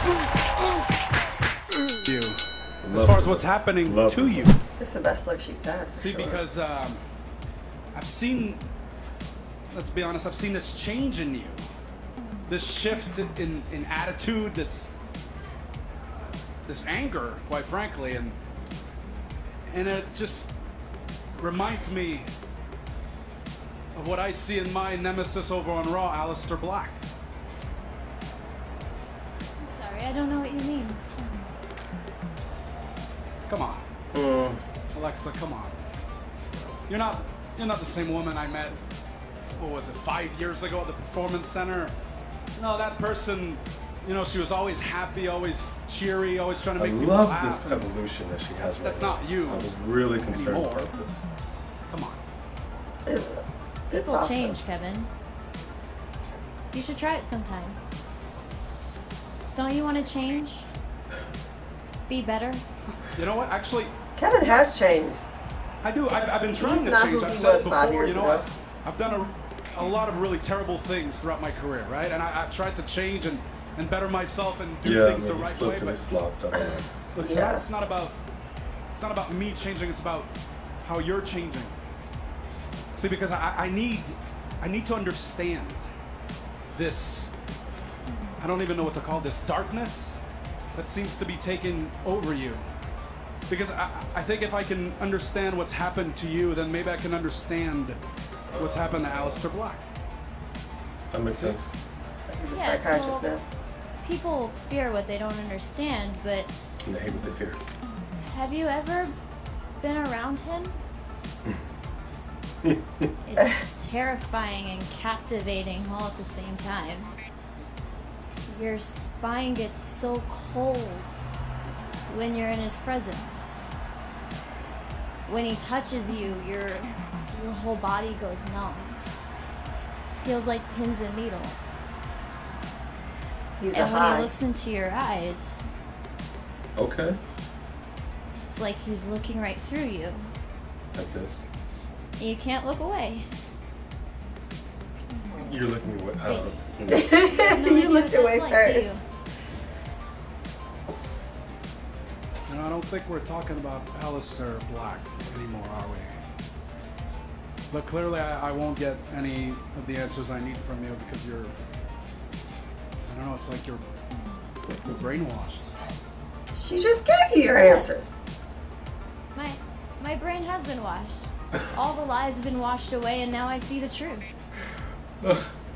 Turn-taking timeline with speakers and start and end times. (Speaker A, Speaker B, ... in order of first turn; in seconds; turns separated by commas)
Speaker A: 2.0-2.4, Speaker B: 2.8-4.5, Speaker A: 2.9-4.6, Speaker C: 4.8-6.4, Speaker A: 5.9-7.0, Speaker A: 7.9-8.6, Speaker A: 9.7-11.6, Speaker A: 12.5-14.9, Speaker A: 16.1-18.4, Speaker A: 19.7-20.5, Speaker A: 21.4-22.3, Speaker A: 23.9-27.0, Speaker D: 29.6-31.5, Speaker A: 33.5-33.8, Speaker B: 34.1-34.6, Speaker A: 34.9-35.8, Speaker A: 36.9-38.8, Speaker A: 39.5-41.9, Speaker A: 42.5-47.9, Speaker B: 46.8-51.3, Speaker A: 48.6-50.9, Speaker A: 51.9-52.2, Speaker C: 53.0-54.6, Speaker D: 53.9-55.1, Speaker D: 56.7-57.8, Speaker D: 59.5-60.7, Speaker D: 62.1-62.6, Speaker A: 63.0-63.9, Speaker C: 64.2-65.3, Speaker A: 65.8-76.0, Speaker C: 66.5-68.5, Speaker B: 74.8-76.9, Speaker C: 76.5-77.6, Speaker A: 77.1-78.2, Speaker A: 78.9-80.3, Speaker A: 80.8-81.8, Speaker A: 82.9-85.8, Speaker A: 86.7-87.3, Speaker A: 88.4-90.2, Speaker A: 90.7-92.6, Speaker A: 93.5-98.0, Speaker B: 98.5-99.5, Speaker A: 98.6-99.8, Speaker B: 101.1-101.7, Speaker C: 102.3-103.4, Speaker D: 102.5-103.3, Speaker D: 104.0-106.5, Speaker B: 106.8-107.6, Speaker D: 108.2-109.1, Speaker D: 109.8-110.8, Speaker B: 112.6-113.0, Speaker D: 113.2-117.1, Speaker D: 118.5-121.2, Speaker D: 122.1-123.5, Speaker D: 125.2-128.9, Speaker D: 130.1-131.8, Speaker C: 133.6-134.3, Speaker D: 133.7-135.6, Speaker B: 136.8-137.2, Speaker D: 138.4-140.3, Speaker B: 140.9-141.5, Speaker D: 142.2-143.3, Speaker B: 145.3-147.1, Speaker D: 146.2-146.5, Speaker C: 146.9-149.0, Speaker D: 147.2-149.0, Speaker A: 152.5-156.1, Speaker A: 157.7-161.5, Speaker A: 163.1-163.8, Speaker A: 164.7-165.7, Speaker C: 166.6-168.2, Speaker D: 167.6-167.9, Speaker D: 169.3-174.3